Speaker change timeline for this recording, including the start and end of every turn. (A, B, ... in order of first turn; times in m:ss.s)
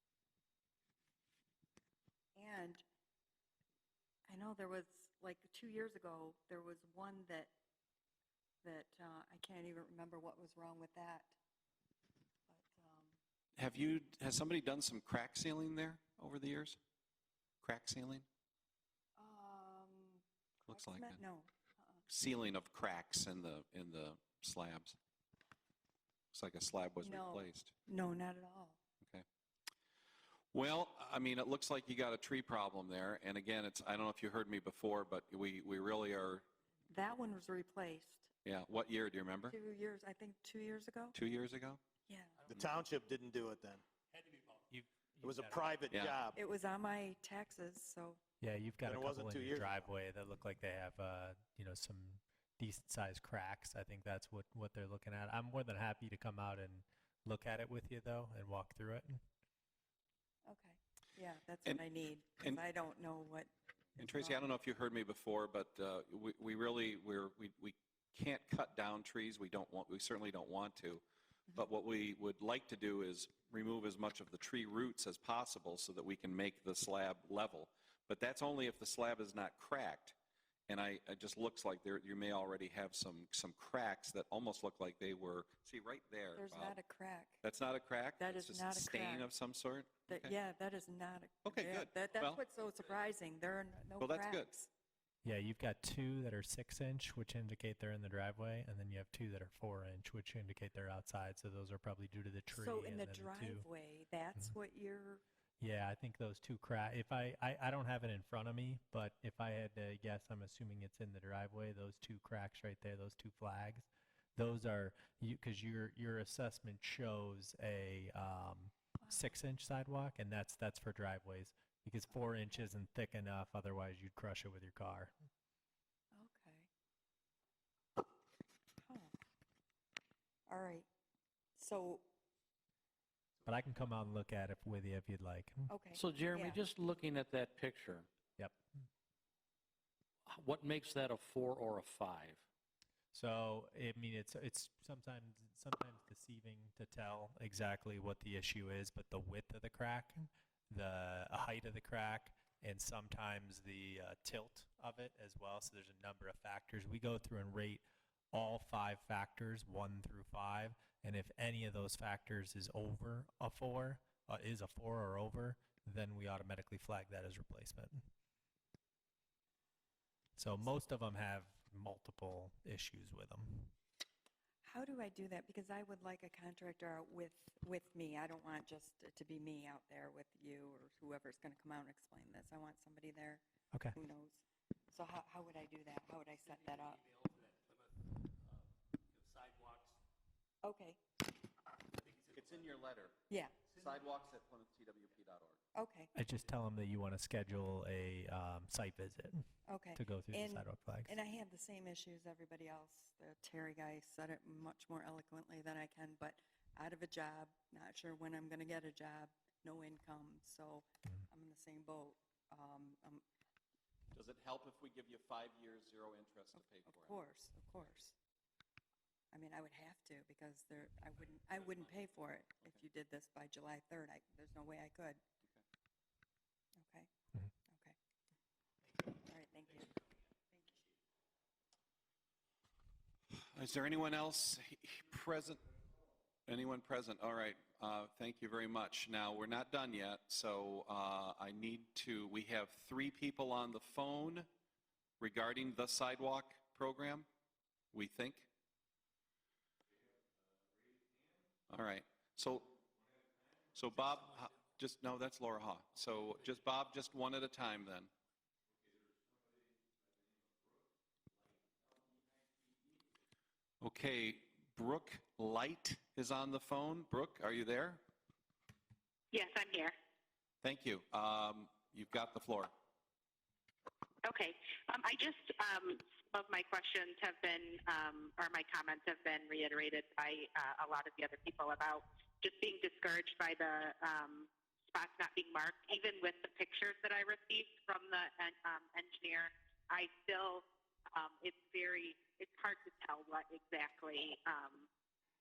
0:02.4-0:02.8 A
0:04.3-0:07.5 A
0:08.6-0:11.4 A
0:12.5-0:13.2 A
0:13.6-0:16.8 B
0:17.6-0:18.2 B
0:19.2-0:22.0 A
0:20.7-0:21.2 B
0:22.1-0:25.0 B
0:26.3-0:27.7 B
0:27.0-0:28.8 A
0:30.5-0:36.4 B
0:36.9-0:38.3 A
0:38.4-0:39.6 B
0:39.5-0:41.2 A
0:41.1-0:41.8 B
0:42.1-0:42.4 A
0:42.5-0:43.8 C
0:44.2-0:44.6 D
0:44.7-0:45.6 E
0:45.2-0:46.4 C
0:45.9-0:46.2 B
0:46.3-0:48.2 A
0:48.4-0:59.2 E
0:48.8-0:49.9 C
1:00.4-1:04.5 A
1:04.0-1:11.0 B
1:11.5-1:20.1 B
1:20.7-1:26.8 B
1:26.3-1:27.4 A
1:27.4-1:30.3 B
1:28.2-1:29.3 A
1:30.1-1:34.7 A
1:31.4-1:32.4 B
1:34.0-1:34.5 B
1:35.2-1:43.7 E
1:42.5-1:45.2 A
1:45.6-2:05.1 E
2:06.1-2:06.7 A
2:08.8-2:09.1 A
2:10.5-2:10.9 A
2:11.6-2:12.1 A
2:13.4-2:15.7 E
2:15.7-2:16.6 A
2:15.9-2:18.1 F
2:20.2-2:22.4 F
2:23.1-2:48.0 E
2:50.4-2:53.7 E
2:54.6-3:03.4 A
3:03.9-3:07.0 A
3:07.1-3:07.8 D
3:09.2-3:09.9 D
3:10.6-3:11.0 A
3:12.3-3:13.2 B
3:13.3-3:13.6 A
3:13.7-3:15.6 B
3:15.7-3:16.1 A
3:16.1-3:21.2 E
3:19.7-3:33.2 A
3:34.1-3:37.2 B
3:36.6-3:38.2 A
3:39.3-3:45.2 A
3:46.8-3:47.1 A
3:47.6-3:48.0 A
3:49.1-3:50.0 A
3:50.5-3:50.8 A
3:53.3-3:55.6 B
3:56.5-4:04.5 B
4:05.2-4:07.2 B
4:07.9-4:08.5 B
4:11.7-4:12.8 B
4:13.7-4:18.1 B
4:23.8-4:28.0 B
4:29.3-4:29.9 G
4:30.6-4:32.7 B
4:34.2-4:54.9 G